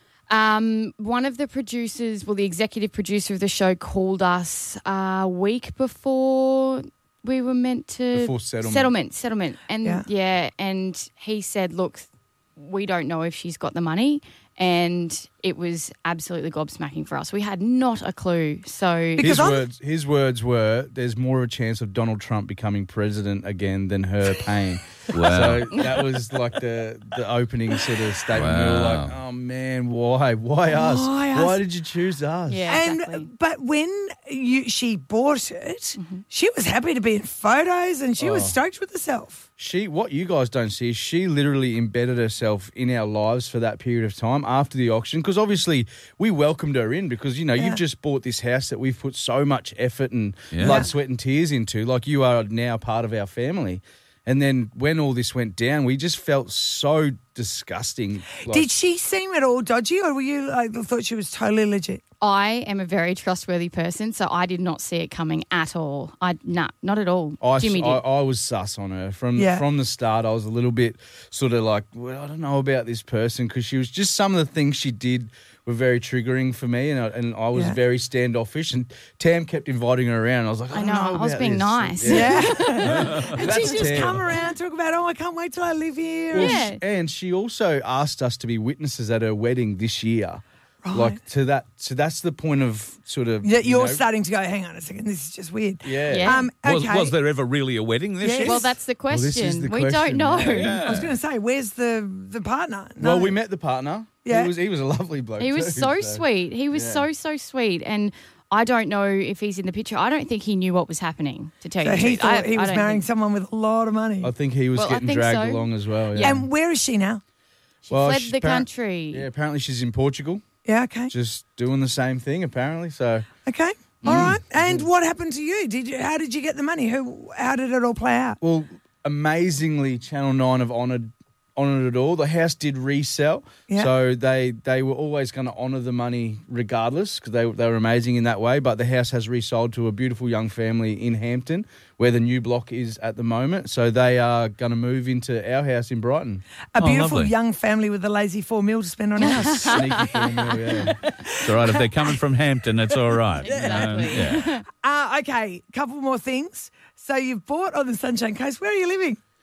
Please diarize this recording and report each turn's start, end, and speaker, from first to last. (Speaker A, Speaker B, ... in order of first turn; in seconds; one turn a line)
Speaker A: 0.3-19.3
Speaker B: 8.1-8.9
Speaker C: 19.2-19.6
Speaker B: 19.2-32.7
Speaker D: 25.1-25.7
Speaker A: 25.7-26.0
Speaker D: 28.3-29.2
Speaker C: 30.7-31.6
Speaker A: 32.5-33.3
Speaker C: 32.7-39.4
Speaker A: 36.0-36.2
Speaker B: 38.2-38.6
Speaker B: 39.6-58.7
Speaker C: 47.5-47.8
Speaker D: 50.5-50.8
Speaker C: 58.5-62.0
Speaker A: 62.2-68.0
Speaker B: 67.4-84.3
Speaker C: 69.3-69.6
Speaker A: 80.7-83.7
Speaker C: 82.0-86.6
Speaker B: 86.3-94.0
Speaker A: 86.3-86.8
Speaker C: 90.8-91.2
Speaker C: 93.4-97.2
Speaker B: 95.8-96.4
Speaker A: 96.1-96.5
Speaker D: 96.6-98.7
Speaker C: 98.2-98.7
Speaker A: 98.4-100.8
Speaker B: 99.1-100.8
Speaker D: 100.4-101.1
Speaker C: 100.8-103.4
Speaker B: 103.0-107.0
Speaker C: 104.2-104.5
Speaker A: 105.4-113.0
Speaker C: 111.8-114.3
Speaker B: 114.2-116.4
Speaker A: 114.7-116.4
Speaker C: 116.2-117.2
Speaker A: 117.8-119.2
Speaker B: 117.9-120.4
Speaker C: 120.6-121.1
Speaker B: 121.1-123.3
Speaker C: 123.4-128.4
Speaker B: 124.0-124.9
Speaker A: 124.0-124.3
Speaker B: 128.4-146.4
Speaker C: 146.7-151.8
Speaker D: 146.8-147.3
Speaker A: 149.2-150.8
Speaker B: 149.6-151.0
Speaker D: 151.4-154.5
Speaker A: 153.4-154.6
Speaker C: 153.5-153.8
Speaker B: 153.5-154.1
Speaker C: 154.8-159.2